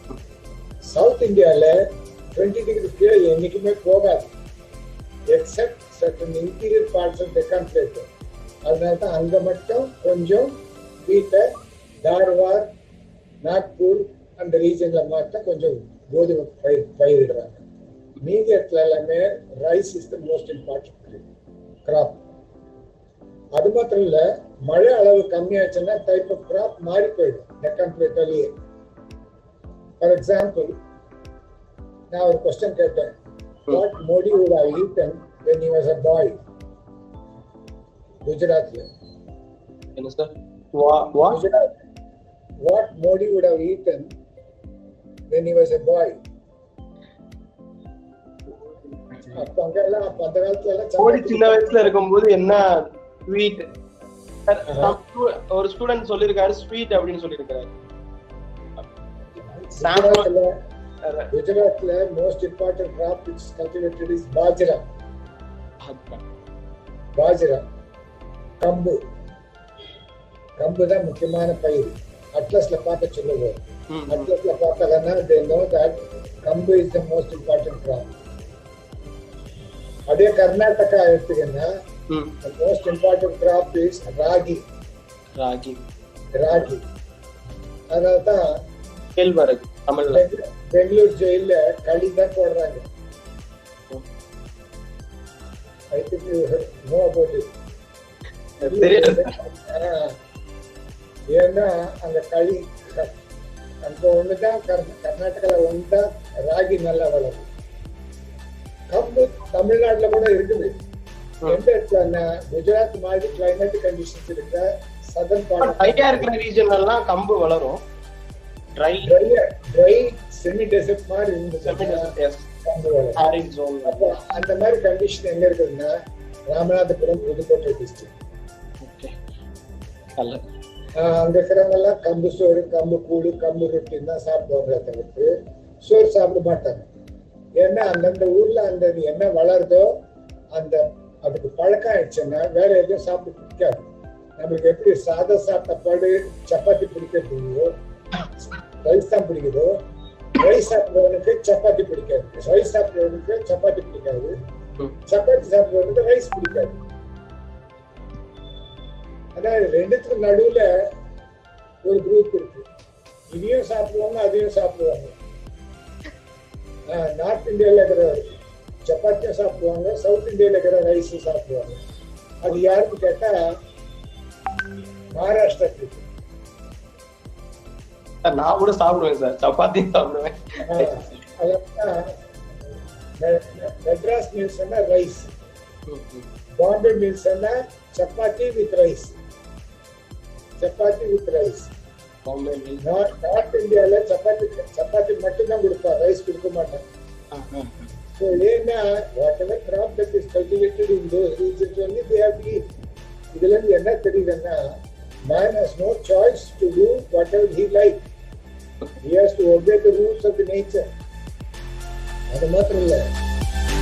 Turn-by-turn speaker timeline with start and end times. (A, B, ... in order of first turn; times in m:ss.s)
0:00.8-0:04.3 A
0:05.3-0:08.1 A
0:08.7-0:11.5 A
0:12.0-0:12.7 A
0:13.4-0:17.6 A
0:18.2-0:21.2 A
0:21.8-0:22.2 A
0:23.5-0:28.5 A
0:30.0-0:30.8 A
0:32.1-0:33.2 A
0:33.7-0:36.4 A
0:38.2-0:38.9 A
0:40.0-0:41.4 B
0:41.3-0:41.7 A
0:42.6-0:44.1 A
0:45.3-0:46.2 A
0:48.5-0:49.4 B
0:49.3-0:52.0 A
0:51.0-0:53.6 B
0:54.5-0:57.7 B
0:54.7-0:55.0 A
0:59.4-1:00.5 A
0:59.8-1:00.3 B
1:01.0-1:01.3 B
1:01.3-1:04.8 A
1:05.8-1:06.2 B
1:07.2-1:07.6 A
1:08.6-1:09.0 A
1:10.6-1:18.1 A
1:13.9-1:14.3 B
1:20.1-1:21.7 A
1:22.1-1:22.3 B
1:22.4-1:24.6 A
1:25.4-1:25.8 B
1:26.3-1:26.8 A
1:27.9-1:28.4 A
1:29.2-1:30.2 B
1:30.1-1:32.8 A
1:35.9-1:37.5 A
1:38.6-1:40.2 A
1:38.6-1:39.3 B
1:41.3-1:43.1 A
1:43.8-1:47.5 A
1:48.9-1:50.7 A
1:51.5-1:56.3 A
1:55.6-1:57.8 B
1:58.8-1:59.1 B
1:59.0-2:02.1 A
2:01.6-2:02.5 B
2:02.6-2:03.2 A
2:03.2-2:04.1 B
2:03.8-2:06.0 A
2:06.5-2:08.1 A
2:08.8-2:09.1 B
2:11.0-2:15.3 A
2:15.8-2:16.9 A
2:17.6-2:19.9 A
2:20.5-2:23.8 A
2:24.4-2:27.7 A
2:28.4-2:29.8 A
2:30.4-2:34.3 A
2:35.0-2:36.8 A
2:39.3-2:40.9 A
2:41.8-2:42.7 A
2:43.3-2:45.1 A
2:46.9-2:48.3 A
2:48.8-2:51.8 A
2:52.4-2:53.5 A
2:55.2-2:56.0 A
2:58.2-3:01.2 B
3:00.6-3:02.2 A
3:03.2-3:05.3 A
3:05.9-3:06.3 B
3:06.6-3:09.2 A
3:10.6-3:11.7 A
3:12.3-3:12.8 B
3:12.8-3:16.8 A
3:17.3-3:17.9 B
3:18.1-3:22.6 A
3:23.3-3:24.6 A
3:25.3-3:28.0 A
3:29.0-3:30.8 A
3:32.3-3:33.0 A